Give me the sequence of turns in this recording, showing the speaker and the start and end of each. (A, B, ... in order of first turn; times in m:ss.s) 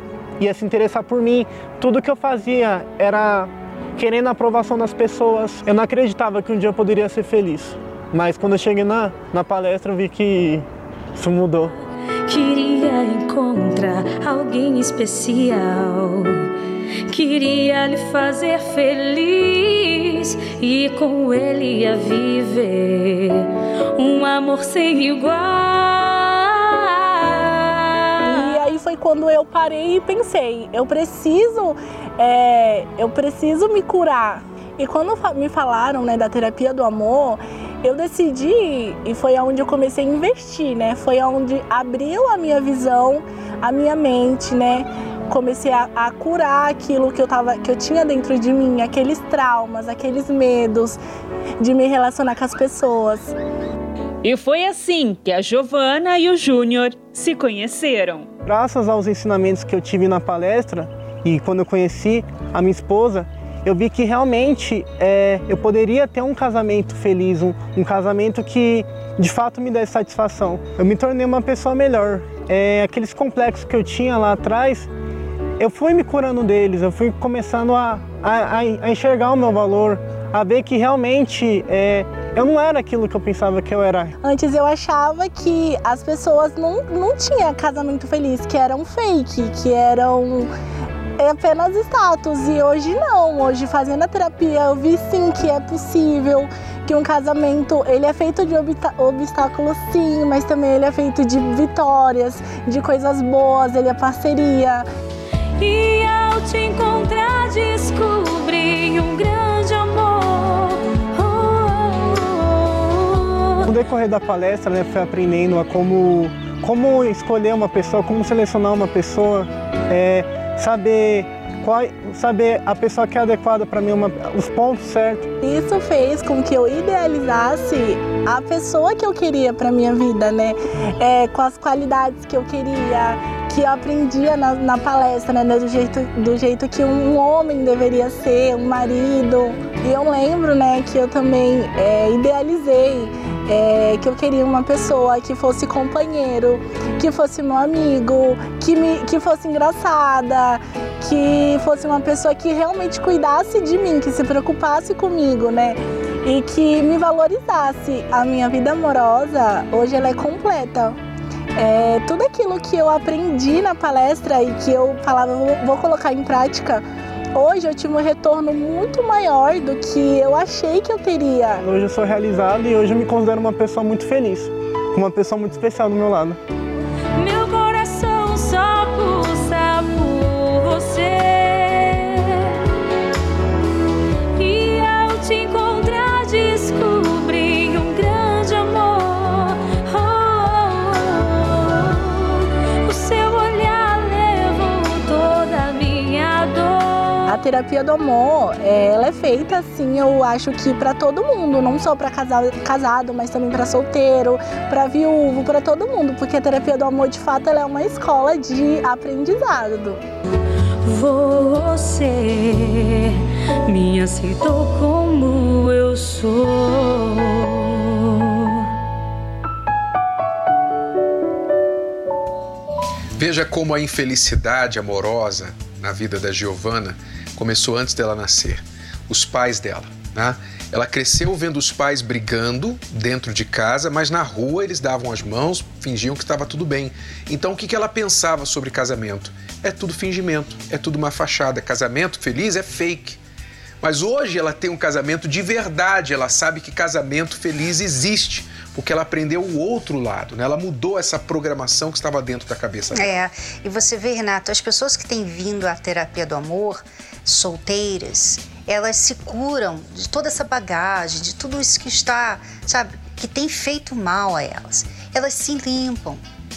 0:00.4-0:10.6 A
0:11.2-0:11.7 A
0:12.3-0:16.5 B
0:17.1-0:28.6 B
0:28.2-0:51.0 C
0:51.6-0:53.3 C
0:54.2-0:58.3 D
0:58.5-1:14.9 A
1:15.6-1:24.1 A
1:24.2-1:30.5 C
1:31.2-1:44.9 C
1:45.6-1:53.7 B
1:53.6-2:05.3 A
2:05.4-2:41.0 C
2:41.6-2:46.8 C
2:47.4-2:51.6 C
2:51.6-2:56.4 A
2:57.2-3:02.6 B
3:04.4-3:12.3 B
3:12.8-3:17.3 B
3:17.3-3:30.0 C
3:30.8-3:38.5 B
3:43.2-4:03.2 E
4:03.8-4:13.2 E
4:12.9-4:26.2 F